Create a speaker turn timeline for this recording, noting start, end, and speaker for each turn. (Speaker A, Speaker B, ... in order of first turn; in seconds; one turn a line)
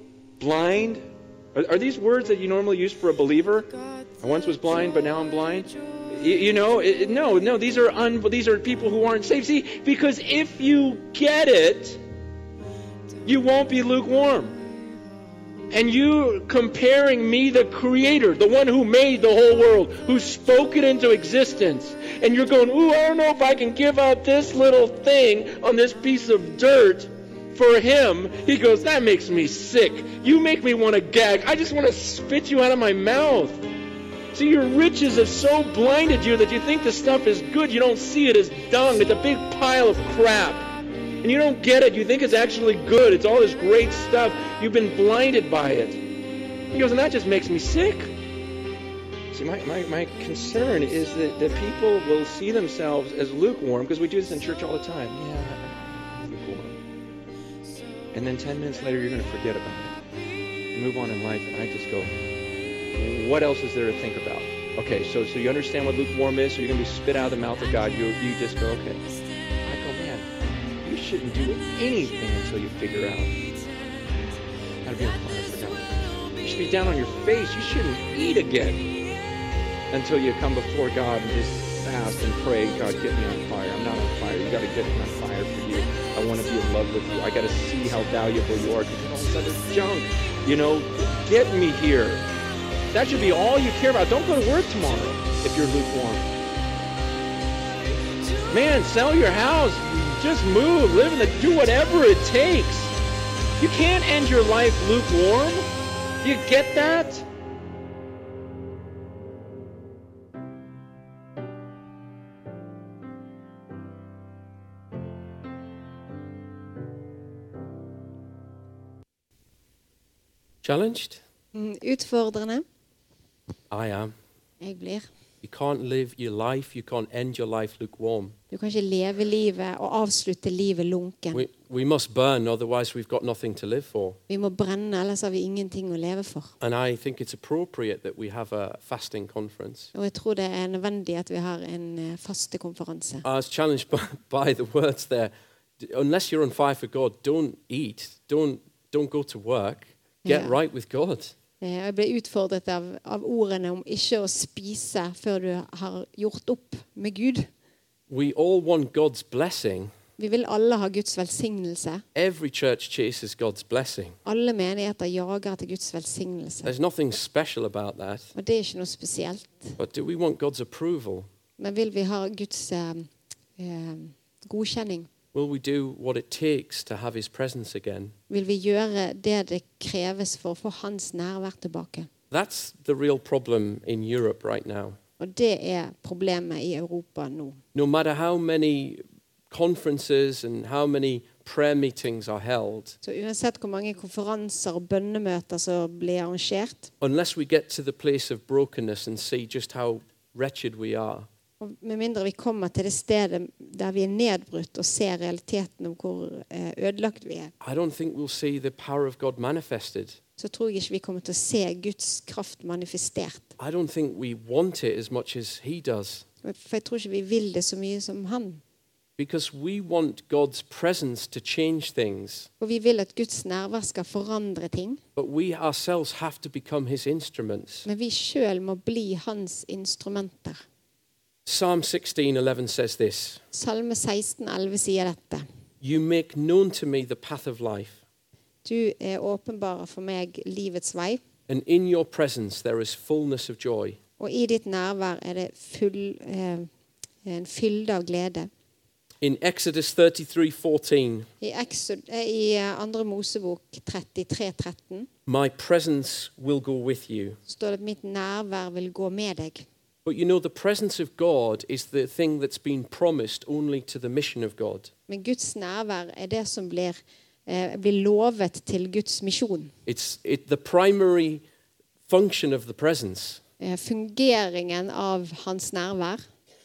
Speaker A: 0.4-1.0
Speaker A: 1.6-12.0
Speaker A: 13.2-14.6
Speaker A: 15.7-33.7
Speaker A: 34.3-40.7
Speaker A: 41.2-46.0
Speaker A: 46.7-48.1
Speaker A: 49.3-56.8
Speaker A: 58.1-60.0
Speaker A: 60.7-62.4
Speaker A: 62.9-69.1
Speaker A: 69.6-70.3
Speaker A: 70.8-73.3
Speaker A: 74.8-78.9
Speaker A: 79.9-92.3
Speaker A: 92.9-96.2
Speaker A: 98.5-102.9
Speaker A: 103.6-105.7
Speaker A: 106.2-107.3
Speaker B: 120.6-121.2
Speaker C: 121.5-122.7
Speaker B: 123.7-124.1
Speaker C: 124.6-125.1
Speaker B: 125.4-128.4
Speaker C: 128.5-131.4
Speaker B: 131.3-134.2
Speaker C: 134.3-136.5
Speaker B: 136.6-139.9
Speaker C: 139.9-143.3
Speaker B: 143.2-151.4
Speaker C: 150.2-150.6
Speaker C: 151.6-157.5
Speaker B: 158.1-159.9
Speaker C: 160.2-162.0
Speaker B: 162.2-164.2
Speaker C: 164.2-166.7
Speaker B: 166.6-168.3
Speaker C: 168.3-169.8
Speaker B: 169.8-171.3
Speaker C: 171.6-175.1
Speaker B: 175.3-178.2
Speaker C: 178.3-182.1
Speaker B: 182.3-185.0
Speaker C: 185.2-187.6
Speaker B: 187.7-193.0
Speaker C: 193.0-196.9
Speaker B: 197.0-201.3
Speaker C: 201.6-207.5
Speaker B: 207.6-210.2
Speaker C: 210.4-213.5
Speaker B: 213.6-216.2
Speaker C: 216.4-218.6
Speaker B: 219.2-222.5
Speaker C: 222.6-225.0
Speaker B: 225.2-227.9
Speaker C: 227.9-230.6
Speaker B: 231.5-233.4
Speaker C: 233.5-235.4
Speaker B: 235.8-238.0
Speaker C: 238.6-241.2
Speaker B: 241.5-244.0
Speaker C: 244.2-246.7
Speaker C: 247.2-248.5
Speaker B: 249.2-251.3
Speaker C: 251.4-255.1
Speaker B: 255.3-257.4
Speaker C: 257.5-259.7
Speaker B: 260.1-264.9
Speaker C: 265.1-269.7
Speaker B: 269.9-271.4
Speaker B: 272.1-273.4
Speaker C: 273.6-276.2